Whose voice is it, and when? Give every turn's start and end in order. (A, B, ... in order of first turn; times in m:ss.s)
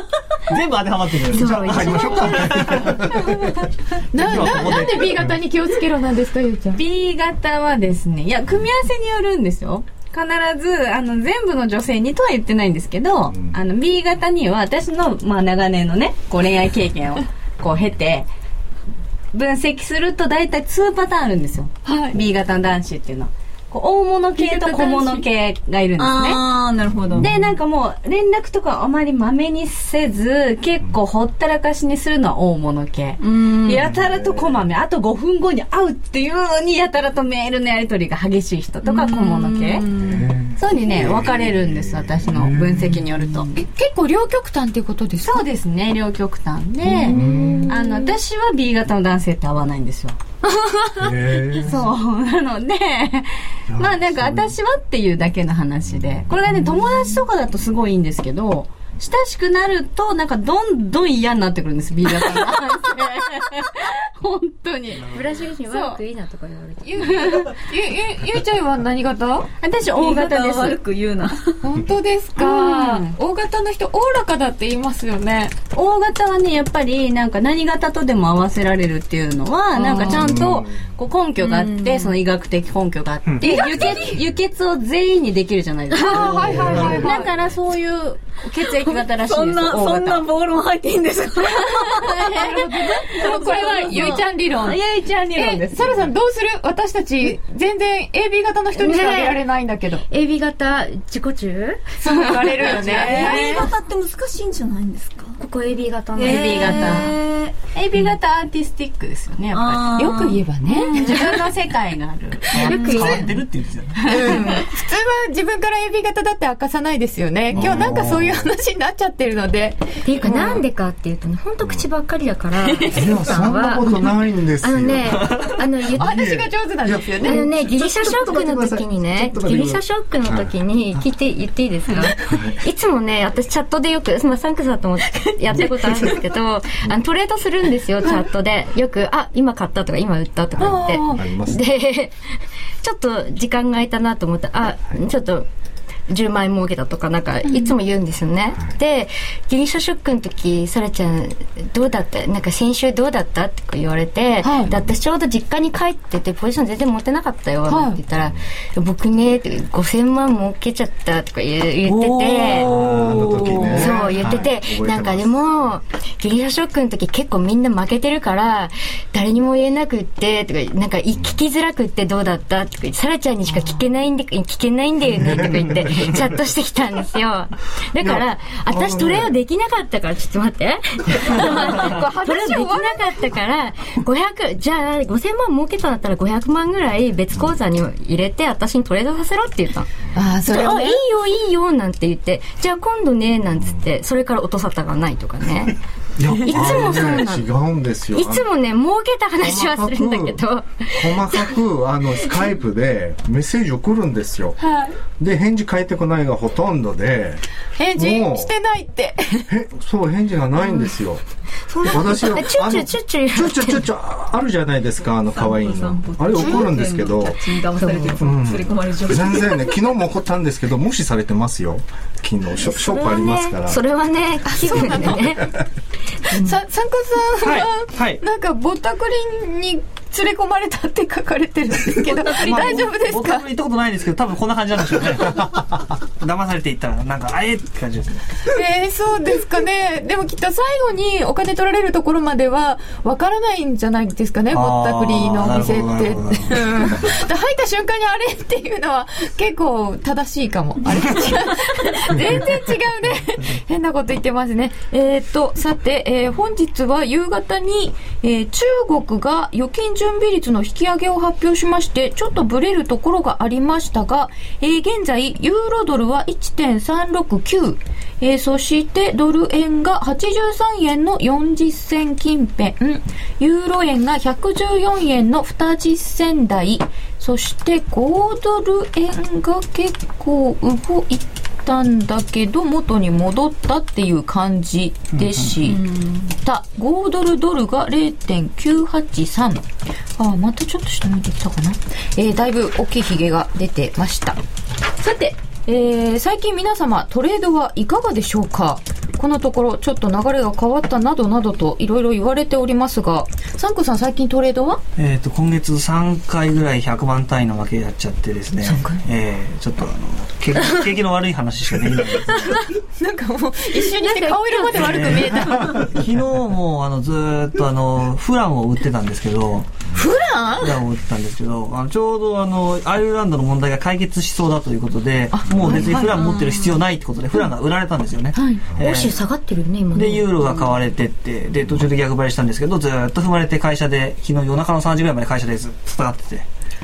0:00.5-0:03.3 A
0:01.3-0:03.3 B
0:01.4-0:02.4 C
0:04.1-0:06.8 D
0:04.2-0:05.4 A
0:06.7-0:18.3 E
0:19.3-0:26.6 E
0:21.8-0:22.2 D
0:24.4-0:25.2 D
0:26.0-0:27.3 F
0:27.2-0:39.9 E
0:33.2-0:33.8 F
0:33.9-0:34.6 B
0:38.8-0:40.3 F
0:39.9-0:43.0 B
0:40.6-0:43.5 E
0:43.5-0:45.5 D
0:45.2-0:50.2 E
0:47.0-0:47.7 B
0:47.0-0:48.2 D
0:51.0-0:51.8 B
0:51.4-1:05.2 E
0:53.7-0:54.5 B
1:05.1-1:07.5 C
1:05.7-1:06.0 D
1:06.9-1:09.5 D
1:07.0-1:07.6 E
1:09.6-1:10.8 E
1:09.9-1:11.6 F
1:11.6-1:15.6 D
1:12.4-1:13.1 E
1:15.7-1:30.3 E
1:19.8-1:20.2 D
1:20.1-1:20.8 B
1:21.4-1:22.2 F
1:23.3-1:24.0 A
1:23.4-1:24.1 D
1:26.0-1:27.3 D
1:26.3-1:27.1 B
1:28.6-1:32.2 F
1:31.7-1:35.9 E
1:31.9-1:34.8 D
1:33.1-1:33.7 F
1:35.3-1:40.1 D
1:38.8-1:39.4 C
1:40.1-1:41.9 C
1:42.0-1:43.6 D
1:42.1-1:43.7 E
1:42.7-1:43.1 C
1:42.9-1:45.4 F
1:45.4-1:47.1 C
1:46.2-1:47.6 F
1:46.2-1:47.2 E
1:47.7-1:50.0 E
1:49.5-1:50.4 F
1:50.0-1:51.3 D
1:50.7-1:53.0 E
1:50.7-1:51.3 C
1:52.5-1:54.2 A
1:52.6-1:53.4 C
1:52.7-1:53.1 F
1:54.0-1:54.6 E
1:54.1-2:00.6 D
1:57.5-1:58.4 B
1:57.6-1:57.9 A
2:00.0-2:06.3 C
2:02.9-2:11.0 B
2:06.0-2:07.5 D
2:07.2-2:22.2 C
2:12.3-2:12.6 B
2:20.6-2:21.6 B
2:20.6-2:21.2 D
2:22.8-2:25.5 C
2:26.1-2:42.7 C
2:27.4-2:27.7 D
2:34.4-2:34.7 D
2:37.7-2:38.0 D
2:41.8-2:44.0 A
2:42.6-2:45.8 B
2:43.7-3:09.9 C
2:55.2-2:56.1 B
2:58.0-2:59.4 B
3:01.3-3:03.2 D
3:10.1-3:11.0 D
3:10.5-3:15.8 C
3:16.2-3:18.5 B
3:16.3-3:17.5 C
3:18.1-3:21.5 C
3:19.4-3:24.6 B
3:24.6-3:24.9 D
3:25.2-3:27.4 B
3:27.8-3:29.5 D
3:28.0-3:28.5 B
3:29.5-3:31.2 B
3:31.8-3:33.8 C
3:31.8-3:37.4 B
3:35.3-3:39.8 F
3:37.8-3:38.2 C
3:38.2-3:43.8 B
3:42.6-3:45.6 C
3:44.7-3:45.1 D
3:44.7-3:45.2 B
3:46.2-3:46.6 C
3:46.3-3:53.4 D
3:47.4-3:48.2 A
3:52.1-3:58.2 A
3:58.5-4:45.8 D
4:04.5-4:07.0 A
4:45.2-4:45.5 A
4:45.7-4:46.3 F
4:46.4-4:49.6 D
4:50.2-4:54.4 D
4:55.0-5:04.8 D
5:05.0-5:12.7 A
5:08.6-5:09.0 D
5:13.0-5:15.9 D
5:14.1-5:14.6 C
5:14.6-5:19.7 A
5:19.9-5:20.8 D
5:20.6-5:29.2 A
5:25.3-5:26.2 D
5:26.2-5:26.7 F
5:28.3-5:28.6 D
5:28.8-5:30.6 C
5:29.9-5:36.4 A